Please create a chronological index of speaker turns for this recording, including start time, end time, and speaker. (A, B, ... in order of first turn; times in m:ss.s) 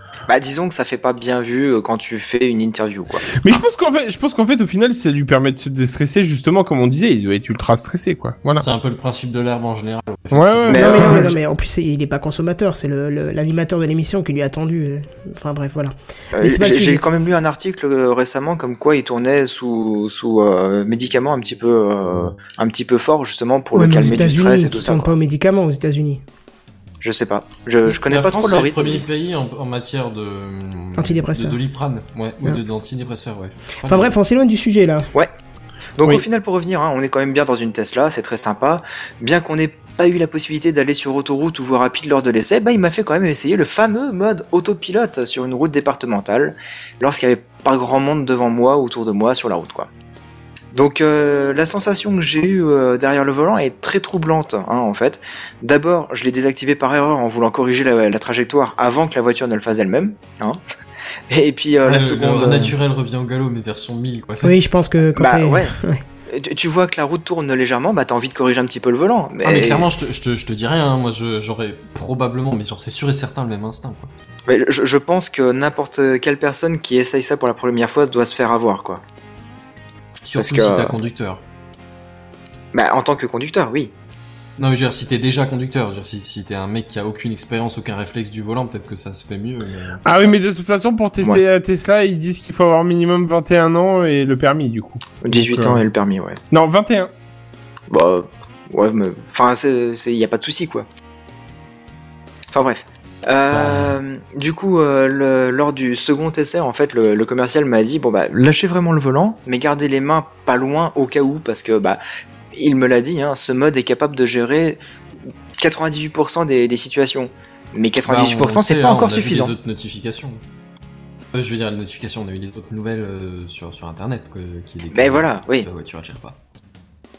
0:00.3-0:03.2 A
0:03.4-0:08.6 B
0:08.6-0:11.2 C
0:10.3-0:11.2 B
0:10.7-0:11.3 A
0:10.7-0:17.0 D
0:16.3-0:25.1 A
0:23.7-0:26.2 D
0:27.0-0:29.0 A
0:27.8-0:34.1 C
0:31.0-0:31.6 D
0:33.8-0:35.1 D
0:36.0-0:49.9 A
0:50.7-1:00.6 A
1:01.3-1:02.7 A
1:01.8-1:04.6 C
1:04.4-1:06.0 D
1:05.2-1:05.7 A
1:06.3-1:09.9 A
1:09.4-1:14.1 C
1:14.5-1:19.0 A
1:20.2-1:21.4 C
1:20.4-1:21.0 A
1:22.7-1:23.9 A
1:24.6-1:30.0 C
1:30.0-1:35.8 B
1:35.2-1:36.4 A
1:36.5-1:37.1 B
1:37.9-1:40.9 A
1:42.5-1:52.0 A
1:52.5-1:54.8 A
1:55.6-1:59.5 A
1:58.0-2:00.4 C
2:01.3-2:06.4 C
2:04.9-2:05.7 A